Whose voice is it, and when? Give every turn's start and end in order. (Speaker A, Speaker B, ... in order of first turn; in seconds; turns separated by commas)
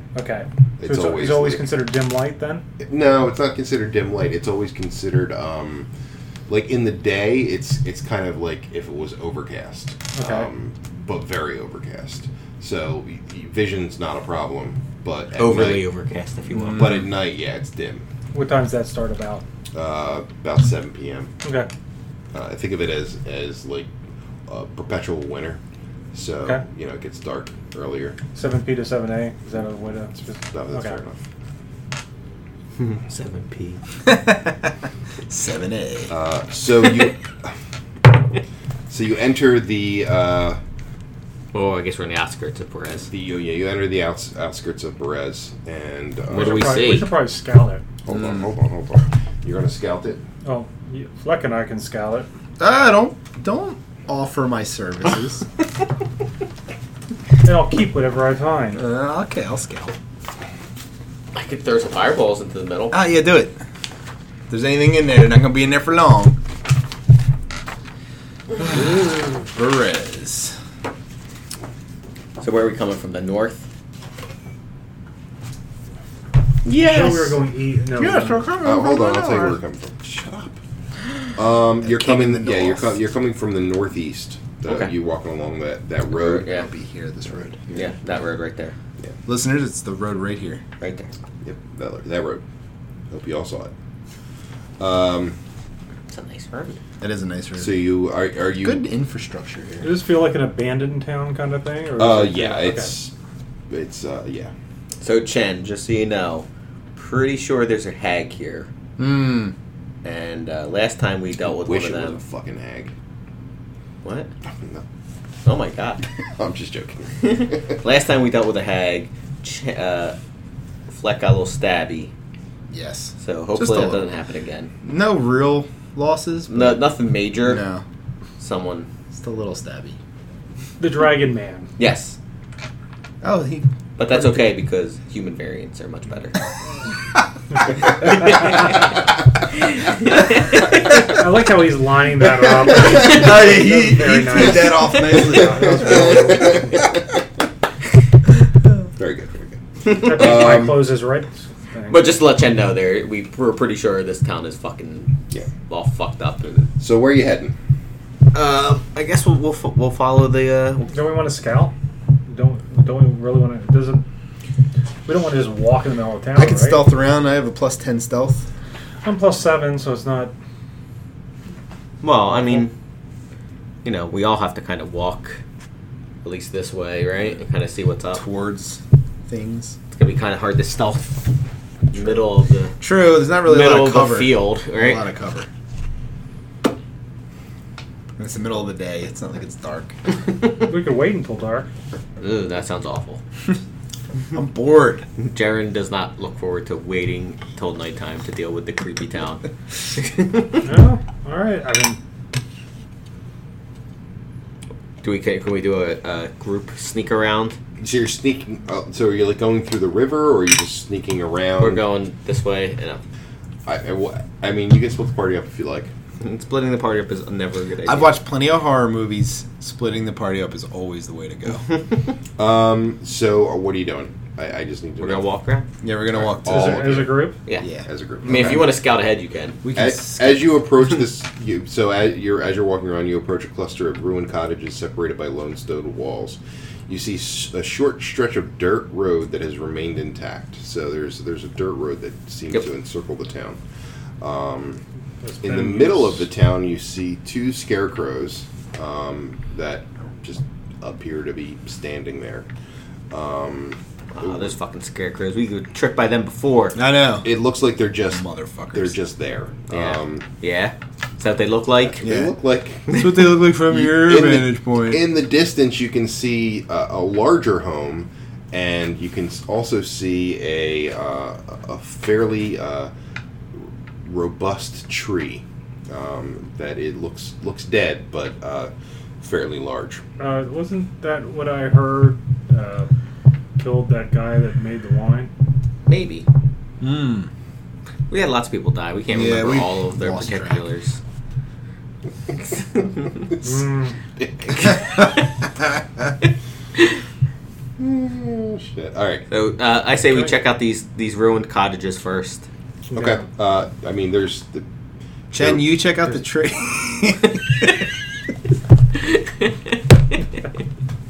Speaker A: 0.1-2.6, Speaker B: 0.8-1.8, Speaker B: 2.8-5.9, Speaker B: 6.5-15.8, Speaker A: 10.1-10.5, Speaker C: 15.3-17.0, Speaker D: 16.6-16.9, Speaker B: 16.7-18.0, Speaker A: 18.3-19.4, Speaker B: 19.7-21.3, Speaker A: 21.4-21.7, Speaker B: 22.3-23.9, Speaker B: 24.5-25.6, Speaker B: 26.1-28.2, Speaker A: 28.3-31.0, Speaker B: 30.5-31.2, Speaker C: 32.8-33.8, Speaker D: 34.0-34.7, Speaker D: 35.3-36.1, Speaker B: 36.1-37.5, Speaker B: 38.9-40.6, Speaker C: 41.5-43.1, Speaker B: 43.1-47.0, Speaker C: 46.3-47.2, Speaker A: 46.3-47.8, Speaker B: 48.0-50.2, Speaker A: 50.4-52.3, Speaker D: 52.6-55.5, Speaker A: 57.4-58.8, Speaker D: 58.8-59.9, Speaker C: 61.3-63.0, Speaker D: 62.9-63.6, Speaker D: 64.5-66.4, Speaker D: 68.6-70.5, Speaker C: 72.4-73.7, Speaker C: 76.6-77.4, Speaker A: 76.8-78.5, Speaker D: 78.0-79.6, Speaker B: 78.6-80.6, Speaker B: 81.3-86.5, Speaker D: 81.8-82.9, Speaker C: 84.6-84.9, Speaker C: 86.2-86.7, Speaker D: 86.4-87.9, Speaker C: 87.7-88.7, Speaker D: 89.2-90.6, Speaker C: 90.8-91.1, Speaker B: 91.4-92.4, Speaker B: 93.1-93.7, Speaker B: 94.8-95.4, Speaker C: 96.1-96.8, Speaker D: 97.0-97.8, Speaker B: 97.6-98.8, Speaker D: 98.6-100.0, Speaker A: 99.8-102.9, Speaker B: 102.0-103.1, Speaker B: 103.7-104.5, Speaker C: 105.0-108.7, Speaker D: 109.0-109.5, Speaker C: 110.0-112.2, Speaker B: 111.5-112.9, Speaker C: 114.0-114.3, Speaker B: 114.4-114.8, Speaker C: 115.4-116.0, Speaker B: 116.4-117.6, Speaker C: 117.2-120.2, Speaker C: 120.9-122.1, Speaker D: 122.7-124.1, Speaker C: 123.2-124.7, Speaker D: 124.8-127.8, Speaker C: 126.5-127.6, Speaker C: 128.4-128.9, Speaker D: 129.1-130.0, Speaker A: 130.8-131.7, Speaker C: 131.8-132.2, Speaker D: 133.2-133.7, Speaker C: 134.0-136.4, Speaker C: 138.0-138.7, Speaker C: 139.8-140.6, Speaker A: 140.9-146.7, Speaker D: 142.7-146.6, Speaker B: 146.1-146.8, Speaker B: 148.9-151.0, Speaker A: 149.9-152.1, Speaker C: 149.9-150.2, Speaker C: 151.9-155.1, Speaker C: 155.7-156.7, Speaker B: 156.8-157.5, Speaker C: 158.3-160.9, Speaker A: 160.9-161.7, Speaker A: 162.3-164.0, Speaker A: 165.1-166.9, Speaker D: 166.3-168.5, Speaker A: 169.0-170.3, Speaker C: 172.0-172.7, Speaker C: 173.8-175.4, Speaker C: 176.2-178.2, Speaker D: 178.1-179.8, Speaker C: 179.9-181.3, Speaker C: 181.9-182.8, Speaker D: 182.8-185.5, Speaker C: 183.4-185.0, Speaker D: 188.2-190.0, Speaker A: 190.6-191.7, Speaker C: 192.2-193.2, Speaker D: 194.3-195.1, Speaker C: 195.2-200.7, Speaker A: 200.6-202.0, Speaker C: 205.0-207.6, Speaker B: 207.8-211.8, Speaker C: 211.6-213.0, Speaker B: 213.7-215.9, Speaker C: 216.2-218.1, Speaker D: 217.8-221.7, Speaker B: 222.4-225.2, Speaker C: 225.0-225.7, Speaker D: 225.8-228.6, Speaker B: 226.1-228.7, Speaker A: 226.4-227.4, Speaker C: 228.2-229.6, Speaker D: 229.6-230.5, Speaker B: 229.7-243.6, Speaker B: 244.2-244.8, Speaker A: 245.2-246.2, Speaker B: 245.4-252.5, Speaker B: 253.1-254.5, Speaker C: 254.1-256.8, Speaker D: 256.7-257.3, Speaker B: 257.2-260.2, Speaker D: 258.1-259.0, Speaker C: 259.7-262.0, Speaker B: 261.9-263.0, Speaker D: 262.0-262.3, Speaker D: 262.9-265.0, Speaker B: 263.6-272.9, Speaker B: 273.5-280.0, Speaker A: 280.2-282.9, Speaker A: 283.6-285.3, Speaker C: 285.9-286.2, Speaker D: 286.8-287.3, Speaker C: 288.1-291.0, Speaker D: 289.1-290.6, Speaker A: 293.4-293.9, Speaker B: 294.2-294.8, Speaker B: 297.8-299.2, Speaker C: 299.3-302.4, Speaker A: 302.9-303.2, Speaker B: 302.9-304.6, Speaker D: 305.3-307.7, Speaker B: 305.3-305.7